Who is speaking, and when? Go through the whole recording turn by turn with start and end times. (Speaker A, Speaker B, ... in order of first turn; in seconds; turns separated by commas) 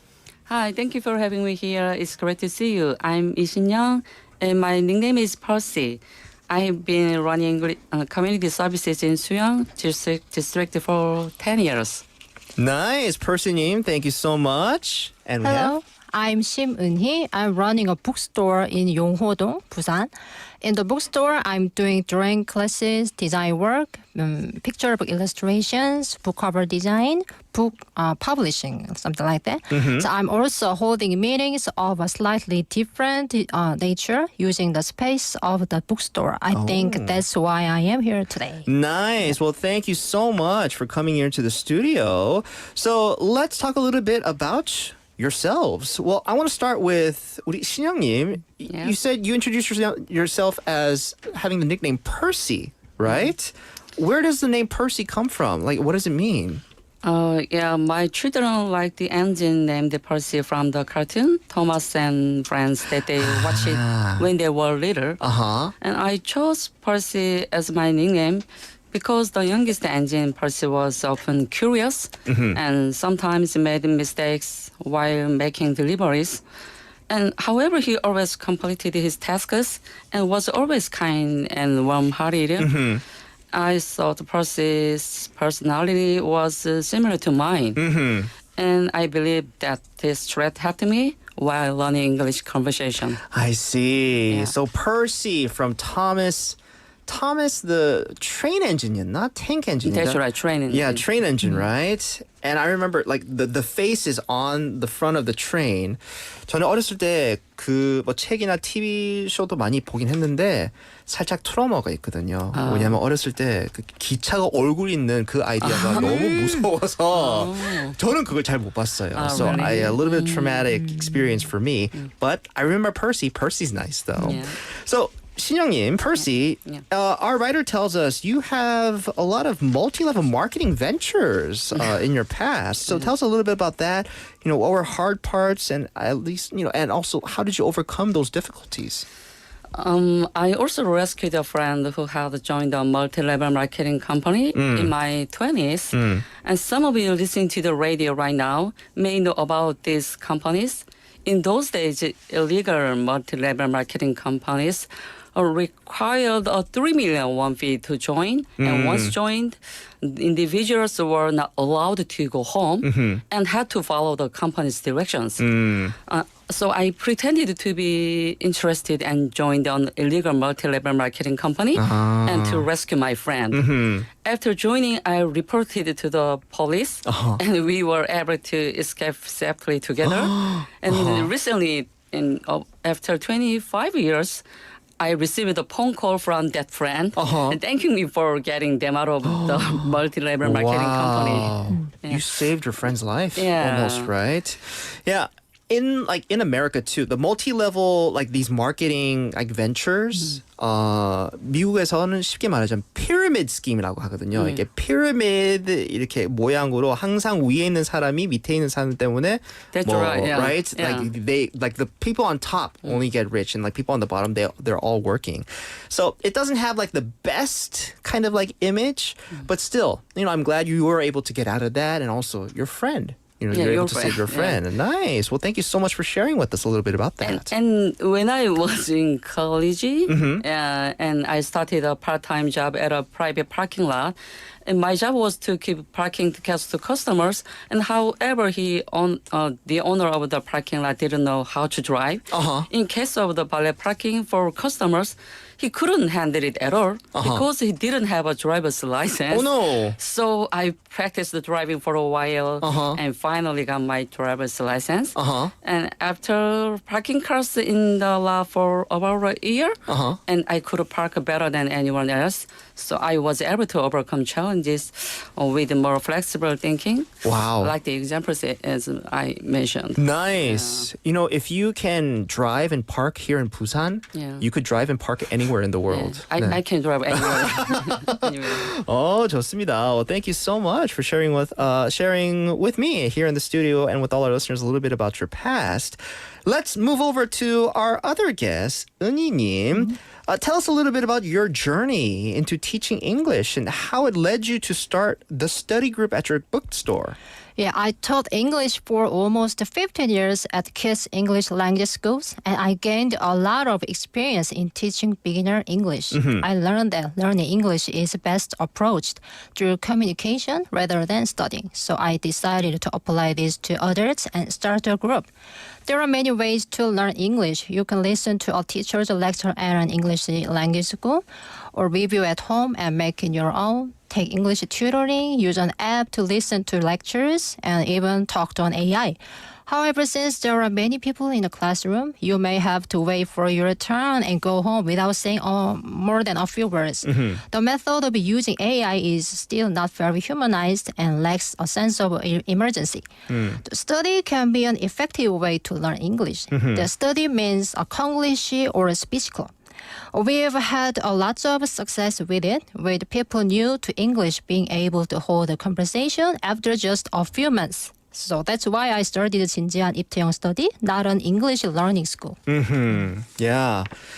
Speaker A: 0.5-12.0, Speaker B: 12.6-15.7, Speaker C: 15.4-20.1, Speaker C: 20.6-38.7, Speaker B: 29.7-30.1, Speaker B: 36.5-37.2, Speaker B: 38.7-56.6, Speaker A: 48.7-49.0, Speaker A: 53.0-53.3, Speaker A: 57.0-65.2, Speaker B: 63.1-64.3, Speaker B: 65.2-65.7, Speaker A: 65.8-76.4, Speaker B: 72.3-72.6, Speaker A: 77.1-82.7, Speaker B: 82.6-83.0, Speaker A: 83.5-87.8, Speaker B: 87.8-88.3, Speaker A: 88.5-93.2, Speaker B: 93.3-139.1, Speaker A: 94.3-94.5, Speaker A: 99.8-101.0, Speaker A: 112.5-113.0, Speaker A: 115.6-118.0, Speaker A: 119.1-120.7, Speaker A: 124.2-124.6, Speaker A: 139.7-165.4, Speaker B: 144.5-144.9, Speaker B: 145.9-146.2, Speaker B: 158.6-159.1, Speaker B: 162.8-163.2, Speaker B: 165.4-165.9, Speaker A: 166.1-173.7, Speaker B: 171.7-172.7, Speaker B: 173.5-174.1, Speaker A: 174.2-184.4, Speaker B: 177.1-177.4, Speaker B: 180.0-181.3, Speaker A: 185.0-192.2, Speaker B: 187.2-187.6, Speaker B: 189.2-227.5, Speaker A: 193.3-194.1, Speaker A: 204.3-204.6, Speaker A: 209.7-211.1, Speaker A: 223.5-224.6, Speaker A: 227.2-270.9, Speaker B: 230.1-230.4, Speaker B: 242.3-242.7, Speaker B: 247.1-247.4, Speaker B: 249.3-250.0, Speaker B: 252.6-253.0, Speaker B: 255.1-255.5, Speaker B: 259.9-260.2, Speaker B: 267.2-267.7, Speaker B: 270.0-276.6, Speaker A: 274.1-274.4, Speaker A: 275.9-278.7, Speaker B: 277.1-297.1, Speaker C: 297.6-315.3, Speaker B: 306.1-306.4, Speaker C: 315.9-343.1, Speaker B: 337.0-337.4, Speaker B: 343.3-343.6, Speaker C: 343.6-349.5, Speaker B: 346.5-346.9, Speaker C: 350.1-362.4, Speaker B: 362.5-363.9